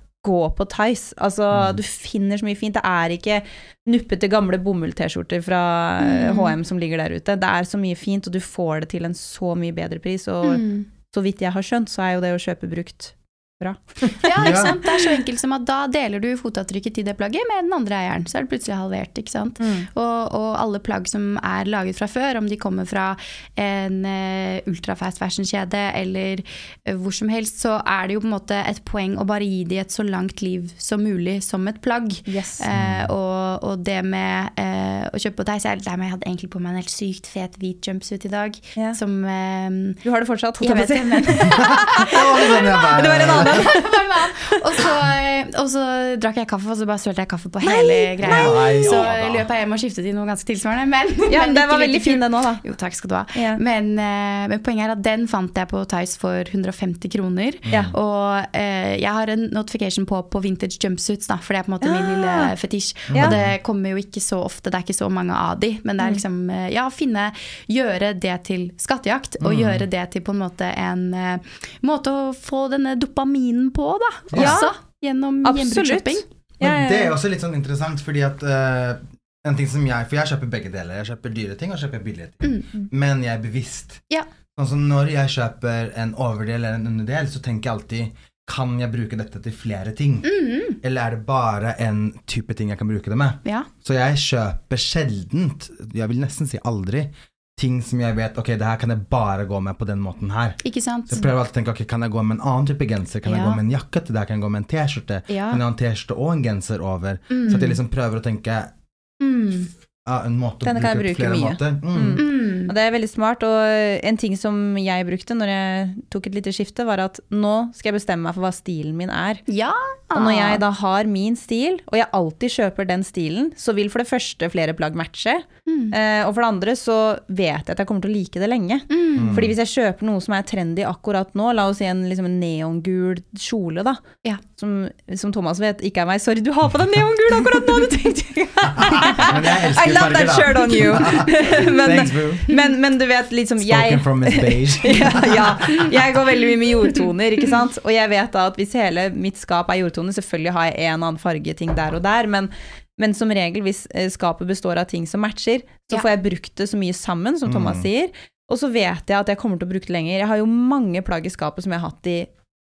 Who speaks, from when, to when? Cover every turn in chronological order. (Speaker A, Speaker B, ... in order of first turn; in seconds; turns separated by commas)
Speaker A: 0.2-14.7, Speaker B: 1.5-1.8, Speaker C: 6.0-6.5, Speaker C: 10.4-10.9, Speaker C: 14.2-40.0, Speaker B: 14.4-14.8, Speaker A: 19.6-19.9, Speaker A: 32.3-32.6, Speaker B: 32.7-33.1, Speaker A: 40.0-44.5, Speaker C: 40.6-76.2, Speaker B: 41.3-43.7, Speaker A: 47.6-49.0, Speaker B: 48.2-49.5, Speaker A: 51.3-52.6, Speaker A: 53.3-53.6, Speaker B: 57.6-57.9, Speaker A: 61.8-62.5, Speaker B: 63.1-63.5, Speaker B: 69.4-69.8, Speaker B: 74.3-74.6, Speaker A: 74.3-74.7, Speaker A: 75.4-77.1, Speaker B: 76.6-84.0, Speaker B: 84.5-108.7, Speaker C: 90.2-90.8, Speaker C: 100.6-101.3, Speaker C: 103.2-103.6, Speaker C: 105.3-105.6, Speaker C: 107.3-107.8, Speaker C: 109.2-109.7, Speaker B: 110.0-112.2, Speaker A: 110.6-119.5, Speaker C: 112.2-112.7, Speaker C: 119.5-120.6, Speaker A: 120.1-134.0, Speaker C: 125.7-125.9, Speaker C: 128.9-129.4, Speaker B: 129.2-129.6, Speaker A: 134.6-162.3, Speaker B: 138.8-142.5, Speaker B: 143.6-146.1, Speaker B: 157.4-157.9